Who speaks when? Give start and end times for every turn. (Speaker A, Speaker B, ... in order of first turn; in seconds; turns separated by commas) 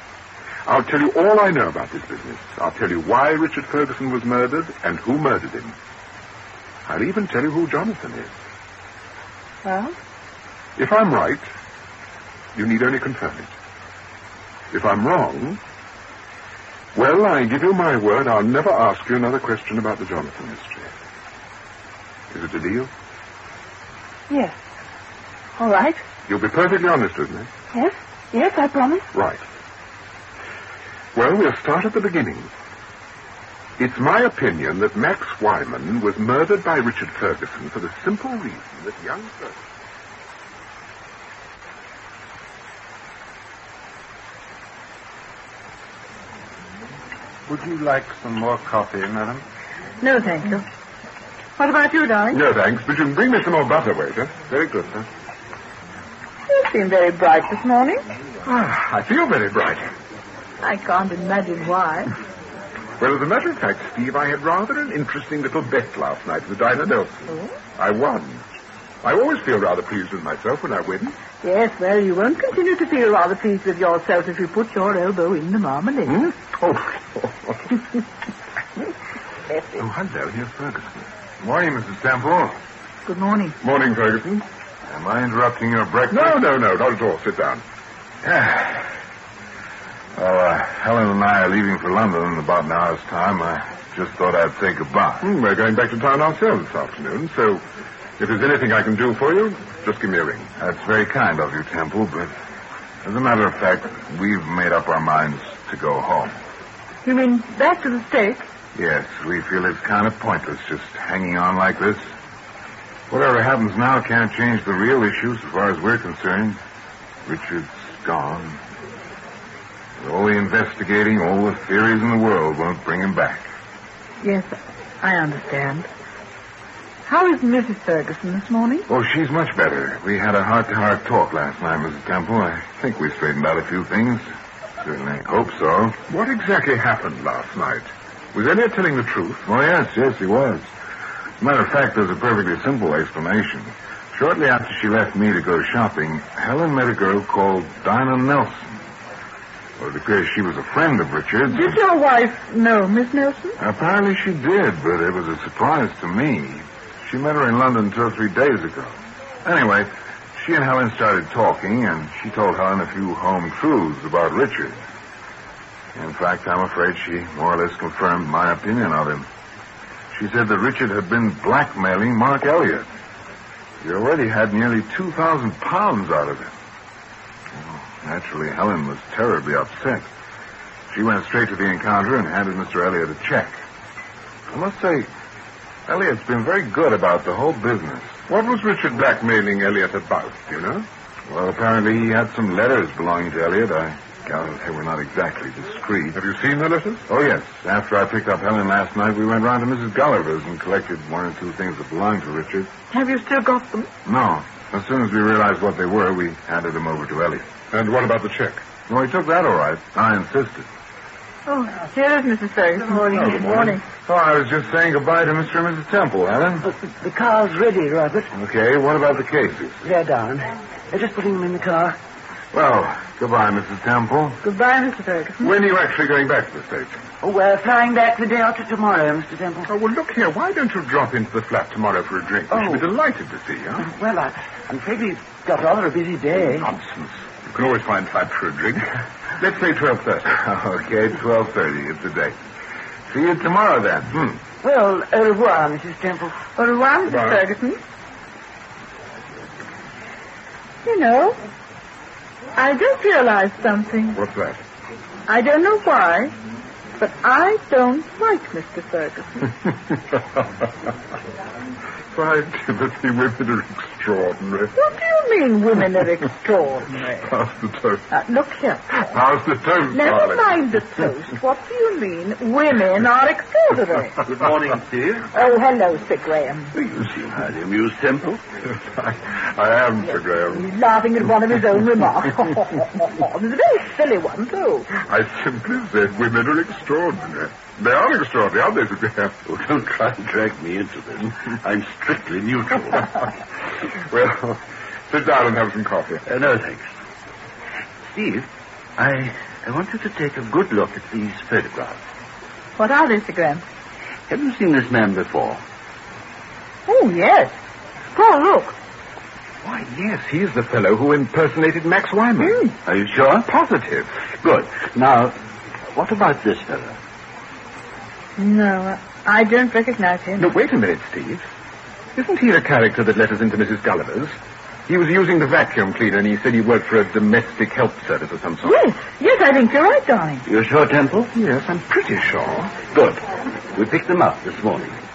Speaker A: 0.7-5.8, Speaker A: 6.9-8.3, Speaker B: 9.7-9.9, Speaker A: 10.8-11.5, Speaker A: 12.6-13.5, Speaker A: 14.7-15.6, Speaker A: 16.9-20.9, Speaker A: 22.3-22.9, Speaker C: 24.3-24.6, Speaker C: 25.6-26.0, Speaker A: 26.3-27.5, Speaker C: 27.7-29.1, Speaker A: 29.1-29.4, Speaker A: 31.1-32.5, Speaker A: 33.8-39.6, Speaker D: 47.5-49.4, Speaker B: 50.0-50.6, Speaker B: 51.6-52.4, Speaker A: 52.3-54.6, Speaker B: 56.5-58.0, Speaker A: 58.5-59.9, Speaker B: 60.6-62.1, Speaker A: 63.0-68.5, Speaker B: 67.3-67.5, Speaker A: 69.0-71.2, Speaker B: 71.4-76.2, Speaker A: 76.1-77.7, Speaker A: 79.8-81.0, Speaker E: 81.4-82.6, Speaker B: 83.1-83.6, Speaker A: 83.6-84.5, Speaker E: 84.8-86.4, Speaker A: 86.1-87.6, Speaker E: 88.2-88.9, Speaker E: 90.2-95.3, Speaker A: 95.2-97.6, Speaker A: 98.2-100.5, Speaker E: 100.6-102.3, Speaker E: 103.0-106.3, Speaker B: 107.0-108.4, Speaker E: 108.7-112.1, Speaker E: 113.1-116.6, Speaker E: 117.3-118.6, Speaker E: 120.0-123.5, Speaker B: 124.2-125.9, Speaker B: 127.1-128.9, Speaker E: 128.9-134.2, Speaker E: 134.8-136.0, Speaker A: 136.1-139.5, Speaker E: 139.5-140.7, Speaker E: 141.4-148.8, Speaker E: 149.8-151.8, Speaker B: 151.5-153.6, Speaker E: 153.6-164.8, Speaker E: 165.9-169.3, Speaker E: 170.1-172.9, Speaker E: 173.8-176.5, Speaker E: 177.6-180.1, Speaker E: 180.9-183.6, Speaker E: 184.5-185.1, Speaker E: 185.9-188.2, Speaker A: 188.3-190.9, Speaker E: 191.3-196.2, Speaker A: 196.1-197.1, Speaker E: 197.1-202.7, Speaker B: 202.9-203.9, Speaker E: 204.1-207.5, Speaker A: 207.7-208.6, Speaker E: 208.9-210.7, Speaker B: 211.5-213.8, Speaker F: 212.8-213.8, Speaker E: 214.0-216.7, Speaker F: 216.8-218.3, Speaker E: 218.3-219.7, Speaker F: 219.8-222.0, Speaker E: 222.5-224.4, Speaker B: 224.4-225.5, Speaker A: 225.4-227.0, Speaker F: 227.2-229.7, Speaker A: 229.7-233.8, Speaker F: 232.5-232.9, Speaker F: 233.8-236.8, Speaker A: 236.6-240.3, Speaker E: 240.3-242.4, Speaker E: 243.1-244.2, Speaker F: 244.6-246.4, Speaker B: 246.6-247.8, Speaker A: 247.1-247.4, Speaker B: 250.8-251.4, Speaker B: 252.6-254.2, Speaker A: 254.2-254.6, Speaker B: 255.3-256.4, Speaker B: 257.0-259.5, Speaker A: 262.1-264.8, Speaker B: 264.8-267.4, Speaker A: 267.2-268.1, Speaker B: 268.1-269.1, Speaker A: 269.0-270.6, Speaker B: 269.9-274.3, Speaker G: 274.3-275.3, Speaker B: 275.3-276.8, Speaker G: 276.7-278.4, Speaker A: 278.6-280.7, Speaker B: 280.5-284.9, Speaker A: 284.9-289.4, Speaker G: 289.5-293.3, Speaker A: 294.0-296.2, Speaker G: 296.2-296.9, Speaker G: 298.1-302.0, Speaker B: 302.8-303.6, Speaker G: 304.3-305.6, Speaker B: 306.9-307.5, Speaker B: 308.1-308.8, Speaker A: 309.6-312.6, Speaker B: 312.4-312.7, Speaker G: 312.9-313.5, Speaker A: 313.4-314.1, Speaker G: 314.4-315.4, Speaker G: 315.9-317.0, Speaker B: 318.4-320.5, Speaker A: 320.4-321.4, Speaker A: 322.2-324.4, Speaker A: 324.9-328.8, Speaker B: 328.6-330.5, Speaker G: 330.5-331.3, Speaker A: 331.3-332.9, Speaker G: 332.9-333.2, Speaker G: 333.7-335.0